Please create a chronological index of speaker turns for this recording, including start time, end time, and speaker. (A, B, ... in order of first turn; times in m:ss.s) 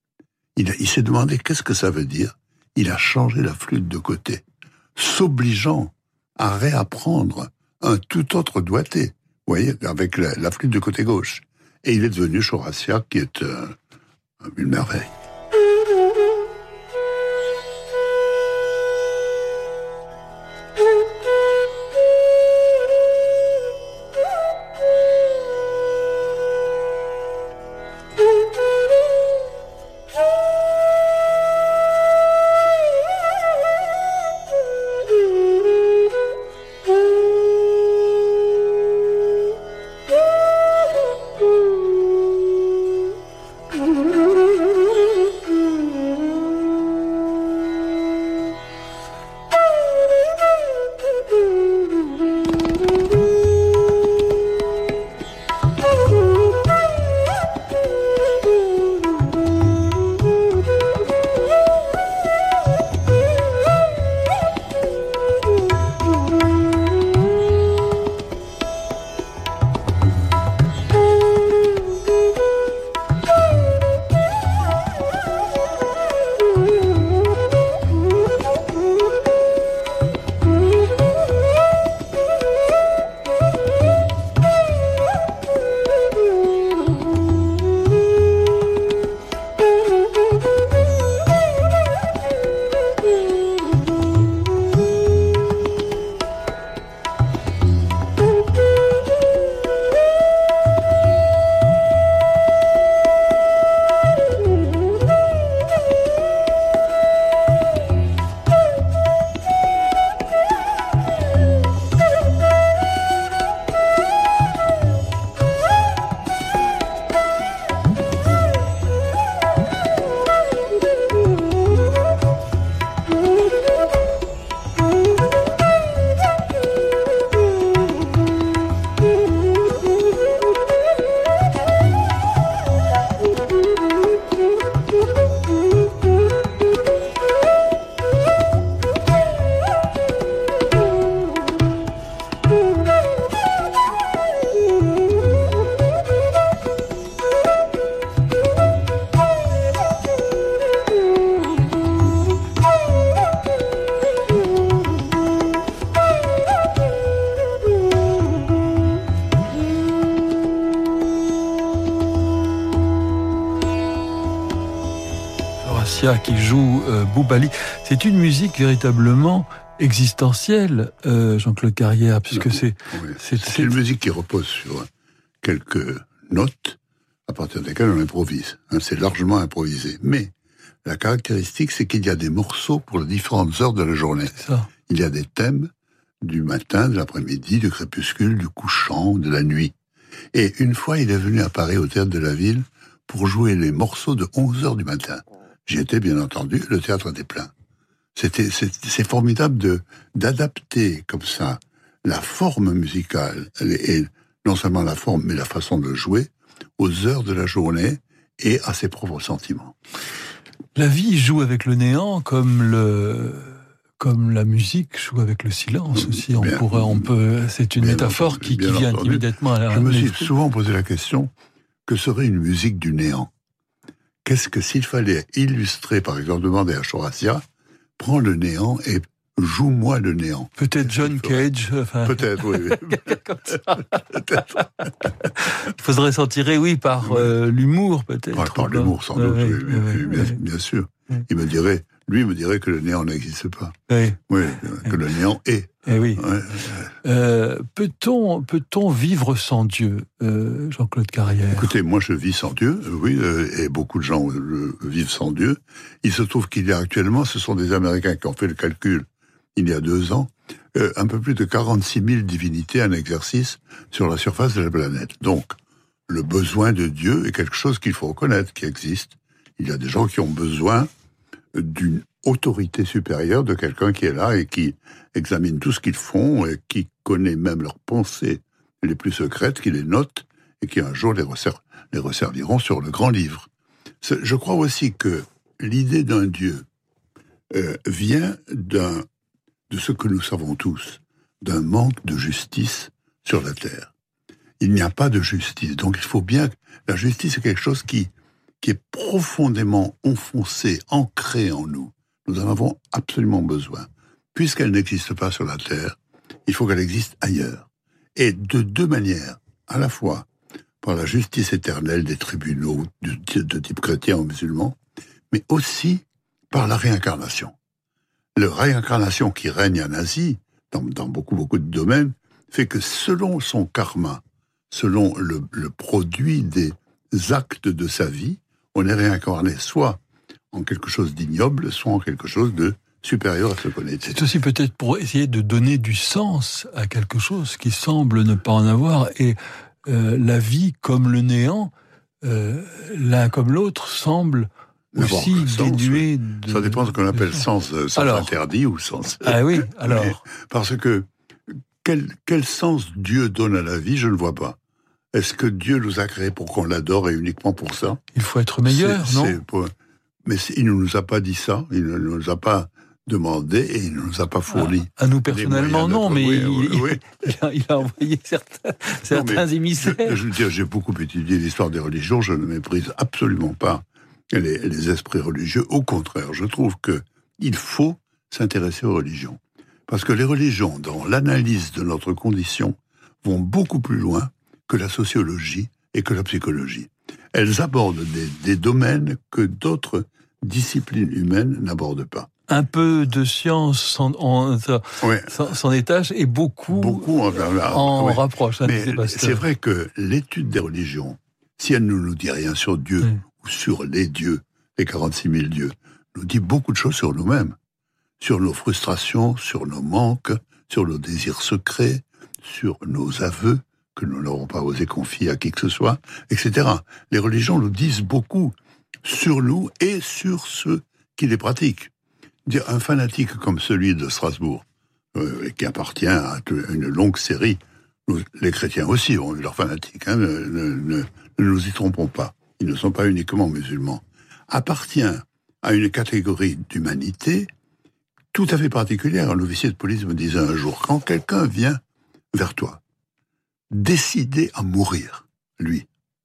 0:00.6-0:04.4 A
0:05.0-0:13.8 A
0:14.4-0:15.1 A
2:45.6-2:53.8 B
2:52.3-2:54.9 A
2:55.4-3:00.3 A
3:00.8-3:05.7 A
3:04.4-3:04.7 B
3:06.2-3:09.7 A
3:10.3-3:17.5 A
3:18.2-3:29.8 A
3:30.8-3:40.3 B
3:35.9-3:37.1 A
3:37.8-3:41.3 A
3:41.9-3:43.3 A
3:44.2-3:47.4 A
3:48.0-3:51.4 A
3:50.6-3:54.6 B
3:52.0-3:54.9 A
3:55.4-4:00.4 B
3:57.0-3:57.3 A
3:58.3-4:03.8 A
4:03.9-4:04.2 B
4:04.3-4:06.9 A
4:05.9-4:06.2 B
4:07.0-4:11.7 B
4:11.5-4:25.6 A
4:26.1-4:30.9 A
4:31.5-4:43.5 A
4:44.0-4:46.6 A
4:47.5-4:49.1 A
4:49.7-4:53.9 A
4:54.6-4:58.1 A
4:58.6-5:10.3 A
5:10.8-5:14.8 A
5:15.3-5:17.6 A
5:18.4-5:30.0 A
5:30.5-5:34.2 A
5:34.1-5:41.7 B
5:42.2-5:47.4 B
5:44.9-5:51.1 A
5:48.0-5:48.3 B
5:49.2-5:50.2 B
5:51.8-5:54.6 A
5:55.1-5:58.0 A
5:58.1-5:59.4 B
5:58.6-5:59.7 A
6:00.2-6:07.1 A
6:04.5-6:10.2 B
6:09.1-6:32.3 A
6:32.5-6:39.4 B
6:35.0-6:35.3 A
6:36.7-6:47.6 A
6:48.2-7:01.9 A
7:02.4-7:17.5 A
7:18.3-7:21.8 A
7:22.3-7:22.8 A
7:23.7-7:25.9 A